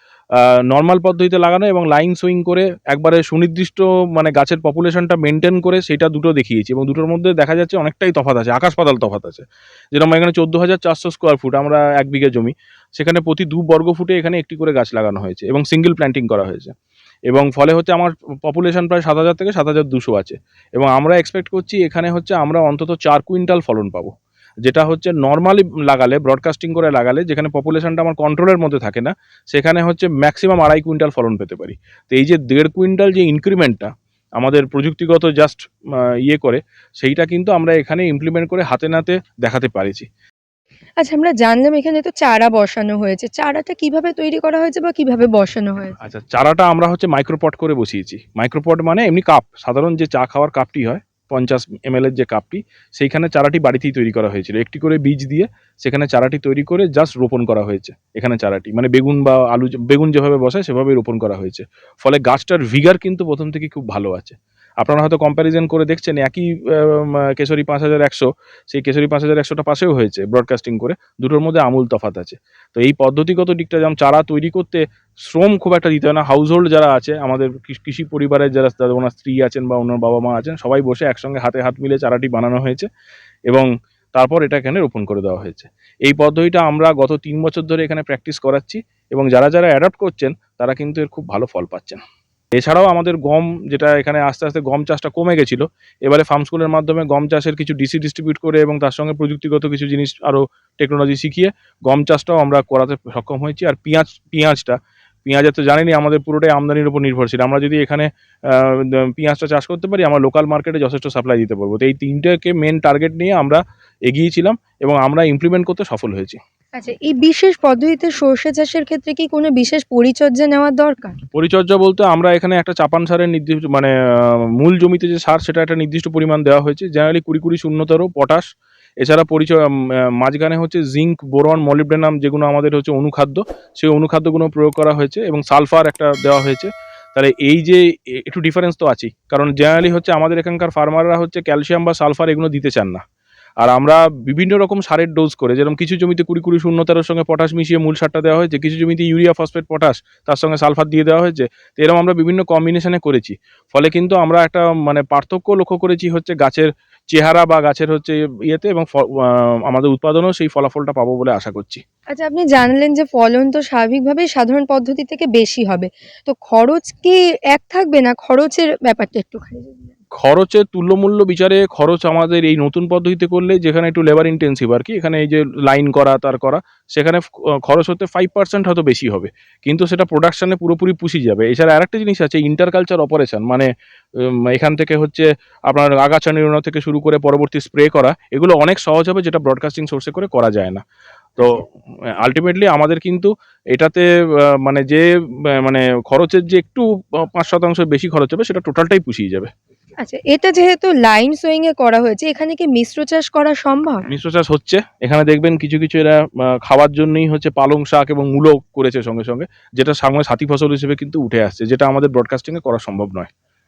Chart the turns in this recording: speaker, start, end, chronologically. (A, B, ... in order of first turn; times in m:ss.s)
0:00.4-0:16.7 A
0:17.3-0:24.1 A
0:24.6-0:35.6 A
0:36.3-0:40.1 A
0:41.0-0:46.0 B
0:46.0-1:22.9 A
1:23.5-1:32.0 A
1:32.6-1:56.4 A
1:56.8-2:01.2 B
2:01.4-2:03.9 A
2:04.6-2:08.4 A
2:09.0-2:09.6 A
2:10.2-2:23.0 A
2:23.6-2:41.8 A
2:42.1-2:49.9 B
2:50.2-3:03.7 A
3:04.2-3:10.8 A
3:12.2-3:14.0 A
3:14.6-3:15.0 A
3:15.6-3:19.5 A
3:20.0-3:24.0 B
3:24.1-3:33.3 A